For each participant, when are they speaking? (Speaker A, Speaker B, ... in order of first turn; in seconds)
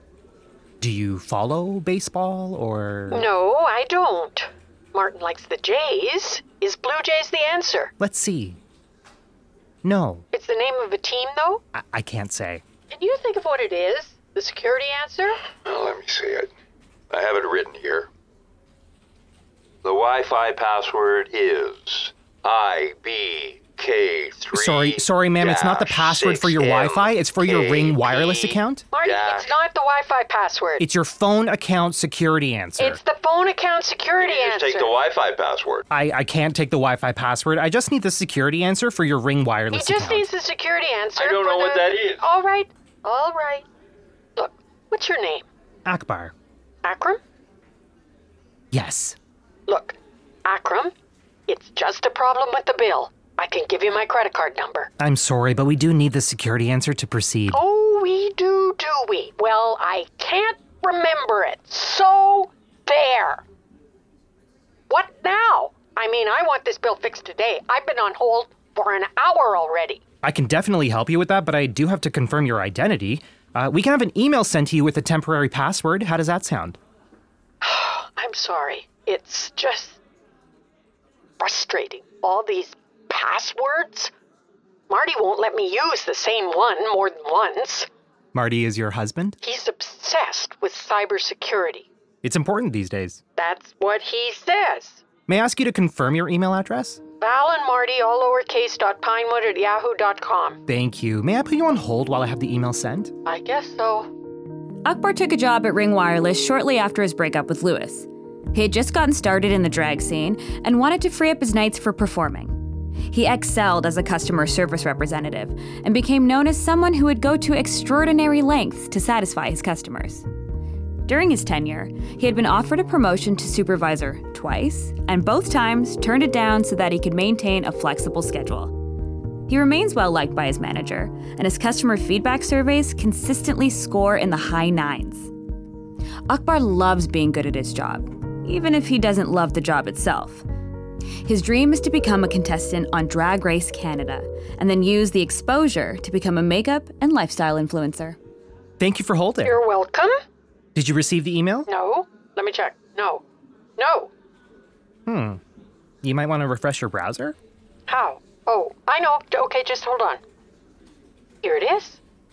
Speaker A: 0.8-3.3, 8.0-8.6, 9.8-10.2, 11.7-12.6, 24.5-28.9, 30.8-33.0, 35.9-40.3, 45.9-46.3, 48.7-49.2, 55.0-57.6, 70.2-76.8, 88.3-89.4, 92.2-93.2, 95.3-97.0, 100.7-103.1, 148.8-149.6, 150.7-151.7, 155.1-155.4, 156.0-157.3
Speaker B: 3.1-7.9, 10.3-11.6, 12.9-15.4, 28.9-30.8, 32.8-35.0, 39.7-43.6, 44.4-45.4, 46.8-47.2, 49.7-50.9, 51.5-54.9, 57.5-63.4, 64.9-70.0, 77.6-80.0, 81.4-84.1, 84.9-87.9, 89.4-91.8, 93.4-95.0, 97.2-100.6, 103.2-104.1, 149.4-150.2, 151.7-153.2, 153.8-154.1, 157.9-160.2, 161.4-162.0
Speaker C: 15.6-16.5, 17.1-18.1, 19.8-29.6, 34.2-35.9, 41.1-42.3
Speaker D: 104.8-120.2, 121.0-128.8, 129.5-135.3, 136.3-140.4, 141.2-148.2